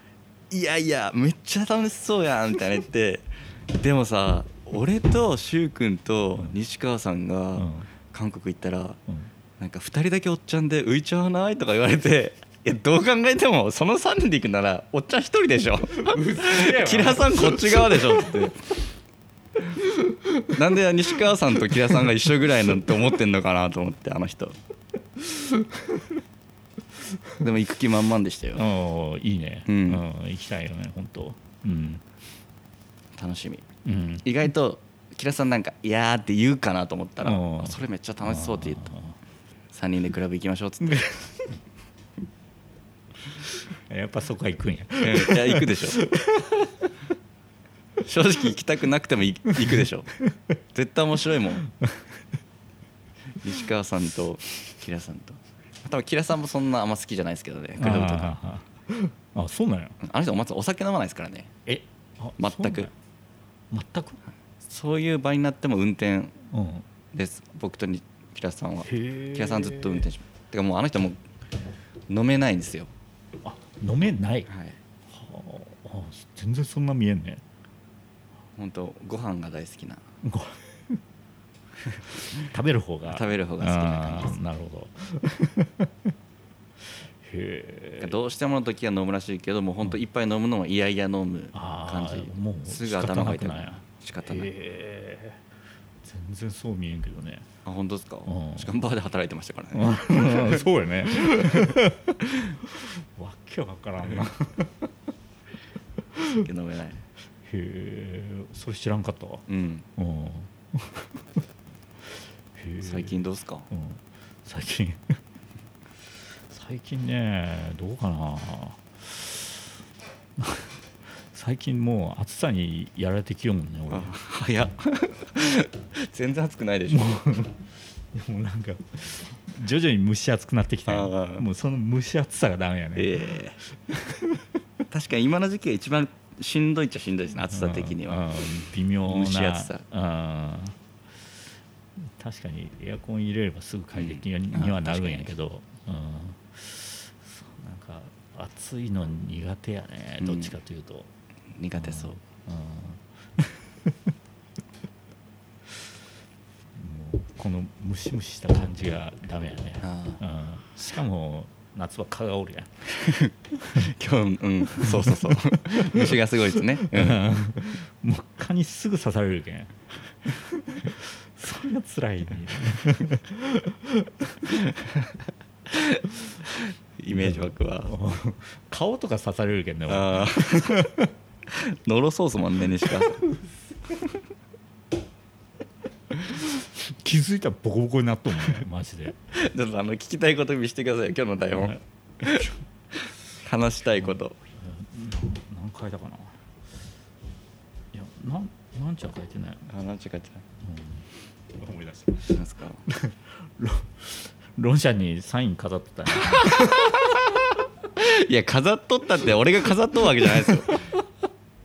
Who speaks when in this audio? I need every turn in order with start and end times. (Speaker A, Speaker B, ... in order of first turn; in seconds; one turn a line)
Speaker A: 0.5-9.0
Speaker B: 7.5-7.9
Speaker A: 9.6-18.6
Speaker B: 16.0-18.5
Speaker A: 20.5-24.6
Speaker B: 25.6-26.0
Speaker A: 27.4-28.6
Speaker B: 28.6-32.0
Speaker A: 29.7-30.0
Speaker A: 33.2-33.6
Speaker B: 33.8-34.2
Speaker A: 34.2-38.9
Speaker B: 37.2-39.1
Speaker A: 39.7-41.1
Speaker B: 40.9-41.3
Speaker B: 43.7-46.9
Speaker A: 45.0-46.0
Speaker A: 48.0-50.1
Speaker A: 50.7-51.6
Speaker B: 51.6-52.1
Speaker A: 53.4-58.4
Speaker B: 57.8-60.0
Speaker A: 60.0-61.5
Speaker B: 61.6-62.9
Speaker A: 62.4-62.9
Speaker B: 63.7-64.2
Speaker A: 64.6-66.3
Speaker B: 66.5-66.8
Speaker A: 67.1-71.2
Speaker B: 68.8-70.1
Speaker A: 72.1-72.9
Speaker B: 73.4-74.5
Speaker A: 74.5-74.8
Speaker B: 75.1-77.4
Speaker A: 78.5-80.0
Speaker B: 80.2-81.0
Speaker B: 82.3-86.1
Speaker A: 83.1-84.4
Speaker B: 87.2-88.2
Speaker A: 88.0-94.5
Speaker B: 91.5-95.4
Speaker B: 96.0-97.5
Speaker A: 97.6-100.7
Speaker B: 98.3-98.7
Speaker B: 99.7-104.9
Speaker B: 106.1-106.5
Speaker A: 106.3-107.0
Speaker B: 107.4-109.4
Speaker A: 109.5-109.8
Speaker B: 110.0-111.2
Speaker B: 112.5-115.2
Speaker A: 112.8-113.7
Speaker B: 116.5-119.8
Speaker B: 120.4-124.1
Speaker A: 123.9-127.2
Speaker B: 126.9-134.5
Speaker A: 130.9-131.4
Speaker A: 132.9-133.6
Speaker A: 134.9-138.2
Speaker B: 137.5-140.8
Speaker A: 139.0-139.8
Speaker B: 142.0-151.1
Speaker A: 143.9-145.3
Speaker A: 150.2-150.5
Speaker A: 151.6-152.2
Speaker B: 151.8-154.1
Speaker B: 156.8-162.8
Speaker A: 159.8-160.2
Speaker A: 162.9-167.3
Speaker B: 164.8-166.2
Speaker B: 166.8-174.6
Speaker A: 174.7-175.1
Speaker A: 175.7-177.9
Speaker B: 177.1-181.1
Speaker A: 179.9-180.8
Speaker A: 181.5-183.2
Speaker B: 186.2-189.2
Speaker A: 189.3-194.3
Speaker B: 191.5-191.8
Speaker B: 194.0-196.4
Speaker B: 197.9-199.7
Speaker A: 199.7-200.4
Speaker B: 200.6-206.9
Speaker A: 202.3-202.8
Speaker A: 206.2-206.9
Speaker A: 207.9-210.8
Speaker B: 210.5-210.8